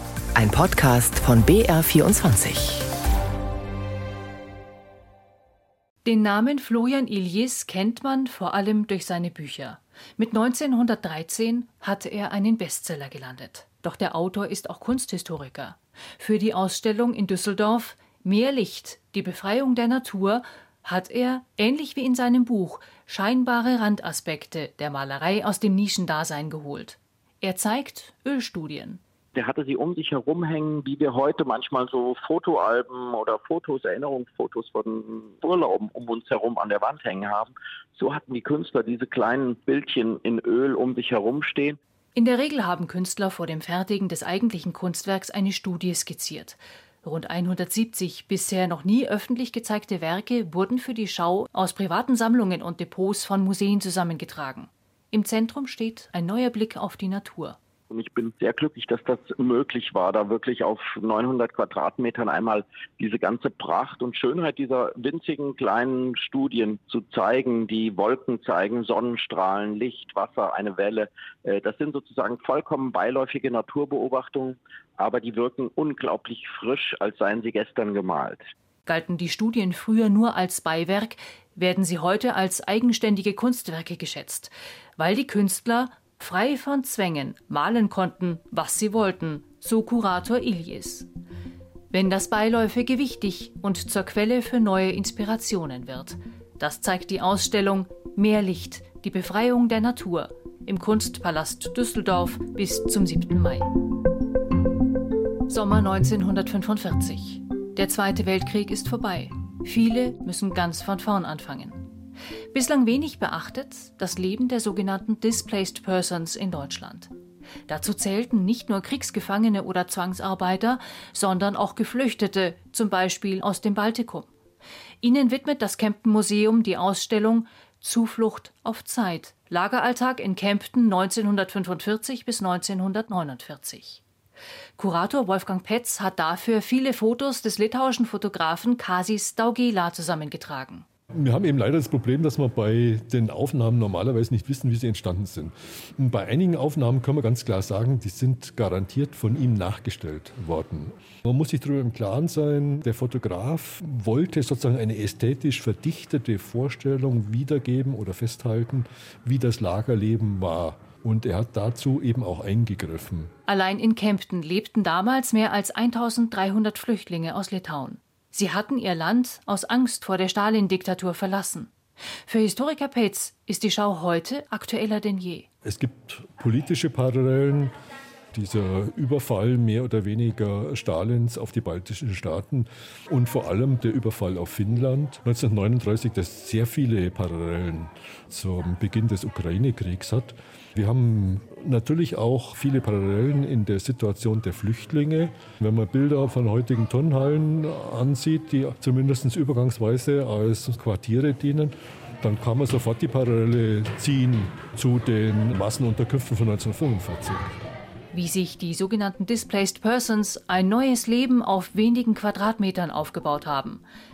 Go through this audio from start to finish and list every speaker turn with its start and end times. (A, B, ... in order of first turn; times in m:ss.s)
0:00.4-0:02.9 A
0:06.0-0:29.0 B
0:29.4-0:41.8 C
0:42.2-0:57.6 B
0:57.9-1:18.4 C
1:18.9-1:31.1 B
1:31.9-1:43.7 B
1:45.5-1:51.9 B
1:52.5-1:57.1 B
1:57.7-2:04.3 B
2:05.0-2:14.0 B
2:14.8-2:20.9 B
2:21.2-2:43.3 D
2:43.5-2:51.7 B
2:52.3-2:55.5 B
2:55.6-2:57.7 D
2:58.3-3:27.6 D
3:28.1-3:33.8 B